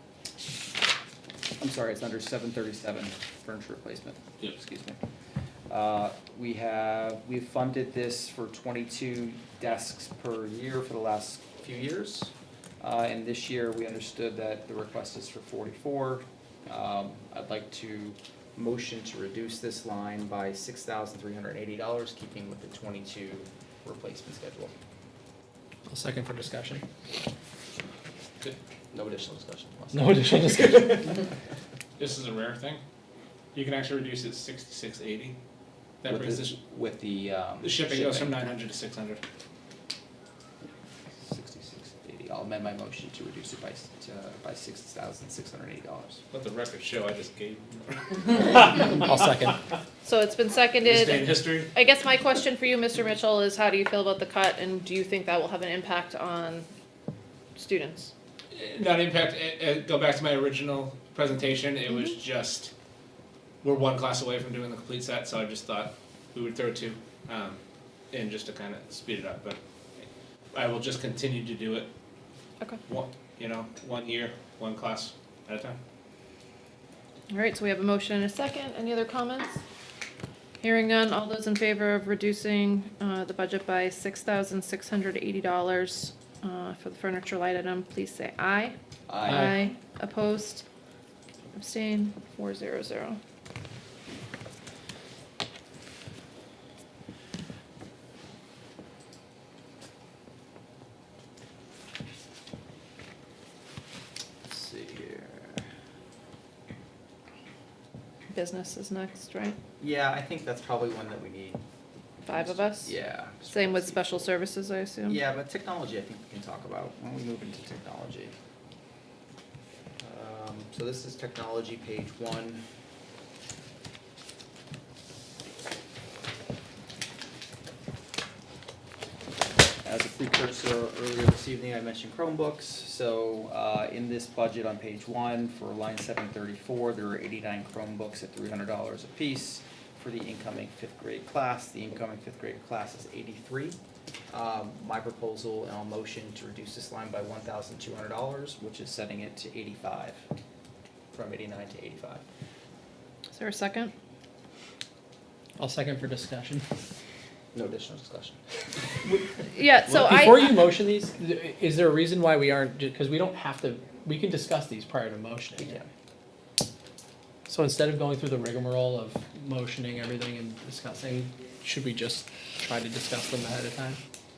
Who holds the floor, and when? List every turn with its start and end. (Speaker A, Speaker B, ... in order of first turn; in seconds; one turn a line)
Speaker A: 1.6-5.0
Speaker A: 5.7-24.7
Speaker B: 25.9-26.8
Speaker A: 28.9-30.8
Speaker B: 29.9-31.2
Speaker C: 32.0-32.8
Speaker C: 33.5-35.4
Speaker C: 36.0-36.5
Speaker A: 36.0-38.4
Speaker C: 37.6-39.2
Speaker A: 41.2-46.2
Speaker C: 46.3-49.1
Speaker B: 49.0-49.6
Speaker D: 50.0-56.7
Speaker C: 50.8-51.7
Speaker D: 57.5-58.1
Speaker C: 58.5-62.7
Speaker C: 63.6-67.6
Speaker C: 68.1-69.6
Speaker C: 70.5-71.9
Speaker C: 72.9-75.8
Speaker D: 77.3-79.6
Speaker D: 80.6-90.6
Speaker A: 89.1-89.6
Speaker B: 89.3-89.5
Speaker D: 91.5-93.2
Speaker A: 104.5-105.6
Speaker D: 108.3-109.5
Speaker A: 109.8-111.6
Speaker D: 112.2-112.9
Speaker A: 112.3-114.3
Speaker D: 113.5-115.2
Speaker A: 115.0-118.3
Speaker A: 120.0-122.6
Speaker A: 129.8-143.8
Speaker A: 144.3-150.2
Speaker A: 151.1-152.2
Speaker D: 153.3-153.9
Speaker B: 155.6-156.6
Speaker A: 157.5-159.2
Speaker D: 159.5-160.6
Speaker B: 159.9-165.8
Speaker A: 165.6-165.9
Speaker B: 167.5-174.0